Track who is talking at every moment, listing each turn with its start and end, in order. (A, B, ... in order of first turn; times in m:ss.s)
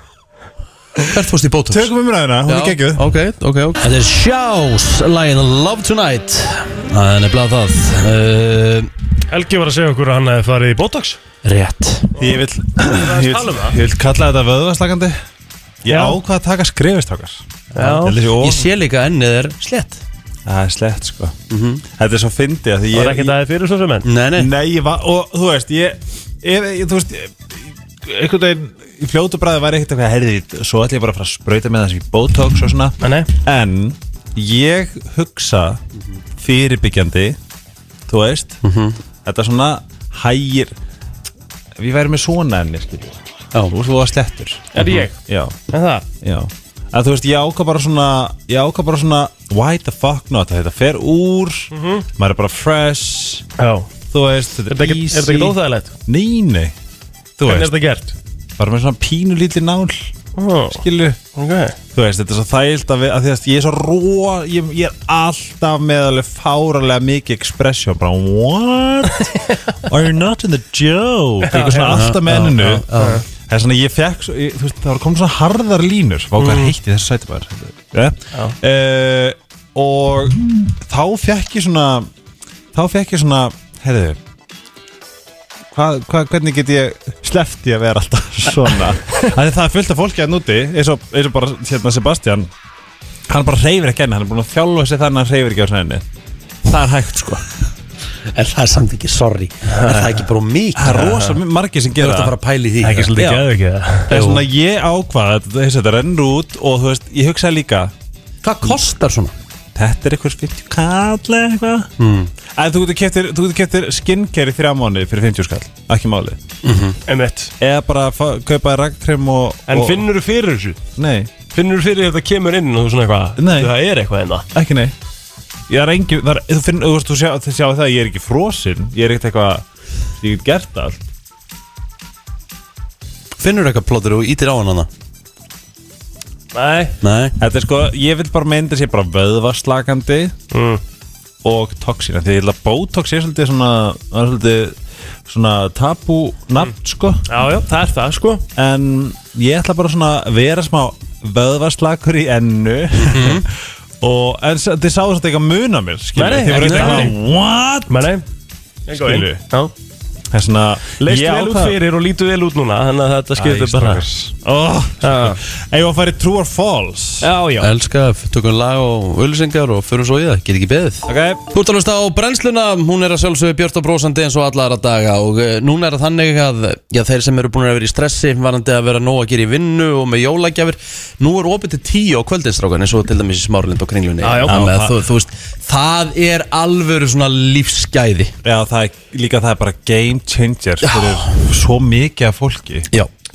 0:01.1-0:01.9 A
0:01.7-0:03.1 B
0:02.4-0:08.9 A
0:09.3-0:11.2 C
0:11.4-0:12.2 A
0:12.2-0:15.2 B
0:12.8-0:13.8 C
0:15.8-0:18.7 B
0:15.9-0:16.2 C
0:17.7-0:18.2 C
0:18.4-0:20.0 A
0:20.4-0:21.4 B
0:21.5-0:21.8 A
0:21.9-0:23.3 B
0:22.9-0:24.1 C
0:24.0-0:24.5 A
0:24.4-0:35.8 B
0:33.0-0:33.3 C
0:36.4-0:37.4 B
0:38.1-0:38.6 B
0:38.6-0:39.0 A
0:39.2-0:40.7 B
0:41.8-0:43.1 B
0:43.7-0:45.6 B
0:44.7-0:45.1 C
0:44.8-0:45.0 A
0:45.7-0:46.0 C
0:46.2-0:53.4 B
0:51.7-0:52.0 C
0:53.6-0:53.9 C
0:54.1-0:56.7 B
0:54.7-0:55.9 C
0:57.4-0:57.8 B
0:57.4-0:58.1 C
0:58.6-1:00.1 B
1:00.4-1:00.8 C
1:00.7-1:01.2 B
1:01.3-1:01.8 C
1:01.9-1:09.3 B
1:09.8-1:12.8 B
1:11.4-1:12.1 C
1:11.6-1:13.2 A
1:12.6-1:13.2 C
1:13.4-1:22.1 B
1:16.4-1:16.7 C
1:22.7-1:24.2 B
1:25.7-1:32.5 B
1:33.3-1:36.0 B
1:36.6-1:37.4 B
1:38.3-1:41.1 A
1:39.7-1:40.1 C
1:40.7-1:42.3 B
1:40.9-1:41.4 C
1:42.0-1:43.1 A
1:42.8-1:44.1 C
1:43.2-1:43.5 B
1:44.1-1:47.9 B
1:44.1-1:44.4 A
1:48.4-1:49.3 A
1:49.7-1:51.9 B
1:52.0-1:52.3 A
1:52.5-1:56.4 B
1:56.6-1:57.0 A
1:57.1-1:57.5 C
1:57.6-2:00.1 B
1:59.7-2:00.8 C
2:01.0-2:01.3 B
2:01.5-2:04.4 C
2:03.4-2:03.7 B
2:04.5-2:04.9 B
2:05.7-2:09.6 B
2:10.2-2:11.0 B
2:13.4-2:14.9 A
2:16.5-2:16.9 C
2:17.0-2:17.4 A
2:17.4-2:20.3 B
2:20.5-2:20.8 C
2:21.4-2:27.2 B
2:27.3-2:28.4 C
2:28.6-2:33.5 B
2:33.0-2:33.4 A
2:34.0-2:38.1 B
2:36.1-2:37.1 C
2:36.5-2:37.1 A
2:37.9-2:38.2 C
2:38.9-2:39.7 C
2:38.9-2:39.4 B
2:40.3-2:41.8 B
2:41.0-2:44.0 C
2:43.4-2:47.3 B
2:45.0-2:45.4 C
2:47.2-2:47.7 C
2:47.6-3:08.3 A
2:51.1-2:51.4 B
3:04.2-3:04.7 C
3:04.4-3:05.0 B
3:08.4-3:12.9 B
3:10.8-3:11.4 A